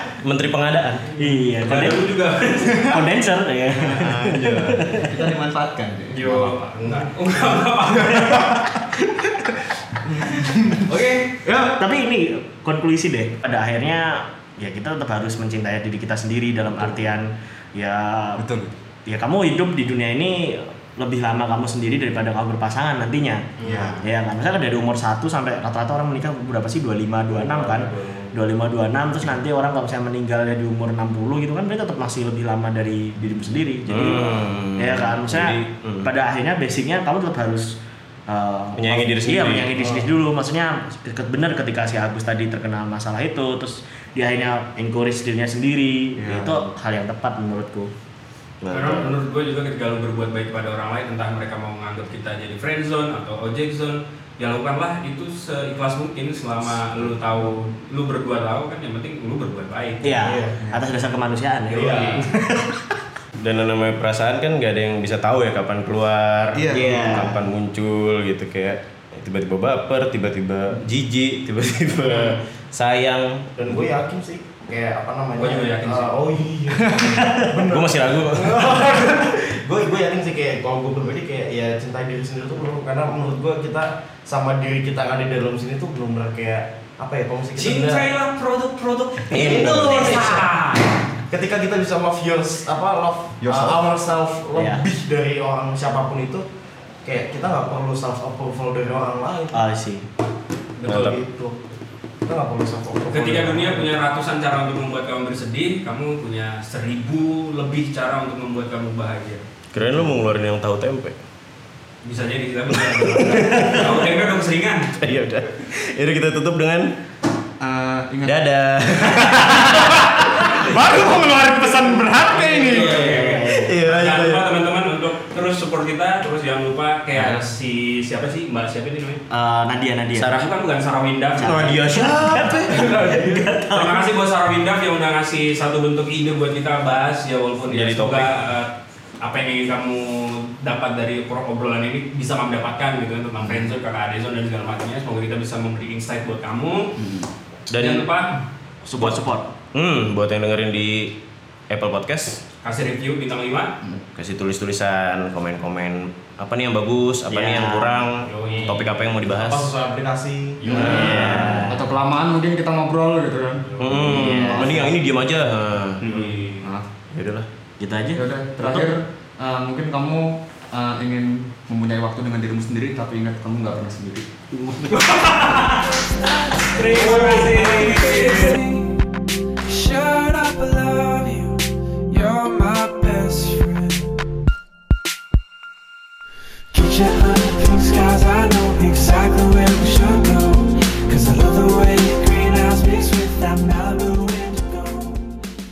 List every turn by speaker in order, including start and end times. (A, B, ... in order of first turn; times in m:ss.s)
0:00.2-0:01.1 A
0:01.2-0:02.0 B
0:01.2-0:03.0 C
0:02.8-0:05.1 B
0:04.0-0:07.1 D
0:06.1-0:08.7 C
0:07.9-0:11.8 D
0:10.3-0:11.4 C
0:11.8-0:18.4 B
0:18.4-0:18.7 D
0:19.1-0:37.8 B
0:23.6-0:24.1 D
0:27.3-0:28.3 E
0:33.9-0:36.1 A
0:38.3-0:47.9 B
0:38.8-0:39.8 A
0:46.2-0:46.7 D
0:48.6-0:49.1 A
0:48.7-1:00.4 C
1:00.0-1:02.8 B
1:00.2-1:00.6 E
1:01.7-1:02.3 E
1:01.8-1:02.2 C
1:03.4-1:13.5 A
1:06.5-1:07.2 D
1:06.7-1:07.4 B
1:12.0-1:12.4 C
1:13.6-1:28.1 E
1:15.4-1:16.2 C
1:16.7-1:17.9 D
1:17.1-1:17.5 B
1:17.7-1:18.6 A
1:27.6-1:31.0 C
1:29.3-1:30.4 A
1:29.3-1:30.5 E
1:31.3-1:36.4 E
1:33.4-1:33.9 D
1:34.6-1:34.8 B
1:37.0-1:39.6 E
1:39.5-1:40.0 B
1:40.8-1:41.0 C
1:40.8-1:41.5 E
1:40.8-1:41.2 A
1:42.2-1:43.9 E
1:43.1-1:49.4 C
1:49.7-1:51.2 A
1:52.0-1:54.9 C
1:52.7-1:54.0 A
1:53.5-1:53.8 B
1:55.0-1:56.9 A
1:57.6-1:58.4 D
1:58.2-2:00.4 A
1:59.7-2:02.9 D
2:02.3-2:09.2 C
2:02.6-2:03.8 B
2:03.6-2:04.5 A
2:09.3-2:10.3 B
2:10.2-2:11.8 C
2:11.4-2:14.0 B
2:11.4-2:12.8 A
2:12.8-2:13.4 E
2:13.7-2:18.7 C
2:17.7-2:18.3 A
2:19.2-2:27.0 C
2:27.0-2:27.3 D
2:27.7-2:28.1 A
2:27.8-2:28.4 C
2:28.8-2:29.4 B
2:29.7-2:31.1 A
2:31.7-2:32.4 A
2:32.6-2:33.7 C
2:34.1-2:39.7 A
2:37.3-2:38.0 B
2:38.2-2:39.1 C
2:39.2-2:41.0 E
2:40.6-2:41.4 C
2:40.6-2:44.9 D
2:40.7-2:41.8 B
2:43.7-2:44.1 C
2:43.8-2:46.1 A
2:43.9-2:44.9 B
2:46.0-2:46.7 C
2:46.6-2:46.9 D
2:47.1-2:47.5 A
2:47.8-2:48.9 B
2:48.1-2:54.2 D
2:54.6-2:55.8 B
2:55.0-2:55.6 C
2:56.0-2:59.1 F
2:56.6-2:58.6 C
2:56.9-2:58.0 B
2:59.7-3:04.1 F
3:06.7-3:15.3 F